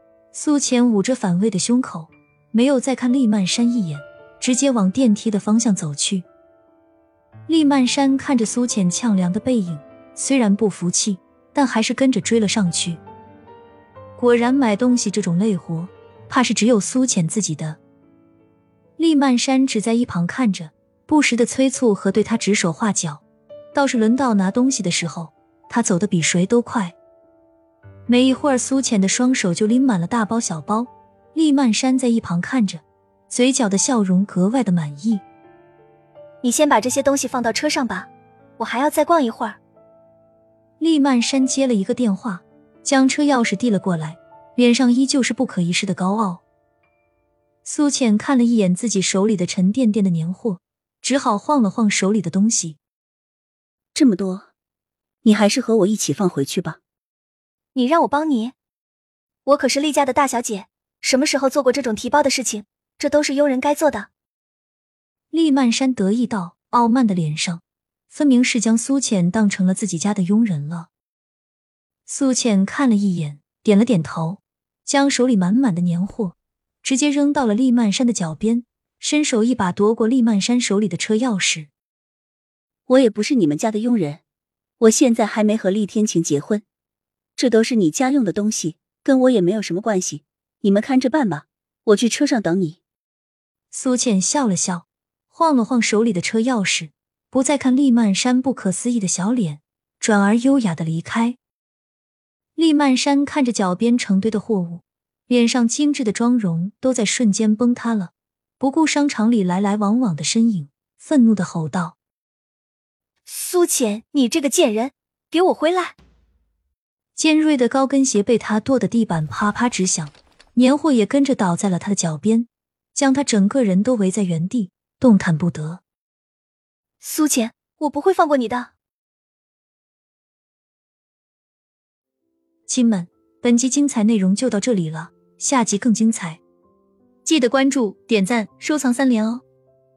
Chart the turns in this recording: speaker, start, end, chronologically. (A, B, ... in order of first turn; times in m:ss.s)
0:00.3-0:06.2 A
0:07.5-0:13.0 A
0:14.2-0:17.8 A
0:19.0-0:23.2 A
0:23.7-0:27.0 A
0:28.1-0:35.2 A
0:36.4-0:39.6 B
0:40.8-0:46.4 A
0:47.6-0:52.8 A
0:53.9-0:54.5 C
0:55.2-0:56.8 C
0:57.8-0:58.6 B
0:59.5-1:04.1 B
1:05.3-1:10.9 A
1:12.1-1:21.7 A
1:22.9-1:24.2 C
1:24.8-1:26.6 C
1:27.4-1:32.8 C
1:33.7-1:41.4 A
1:42.6-1:52.0 A
1:53.3-1:56.0 B
1:57.2-2:05.8 A
2:07.0-2:08.7 B
2:12.7-2:16.4 A
2:17.2-2:19.4 A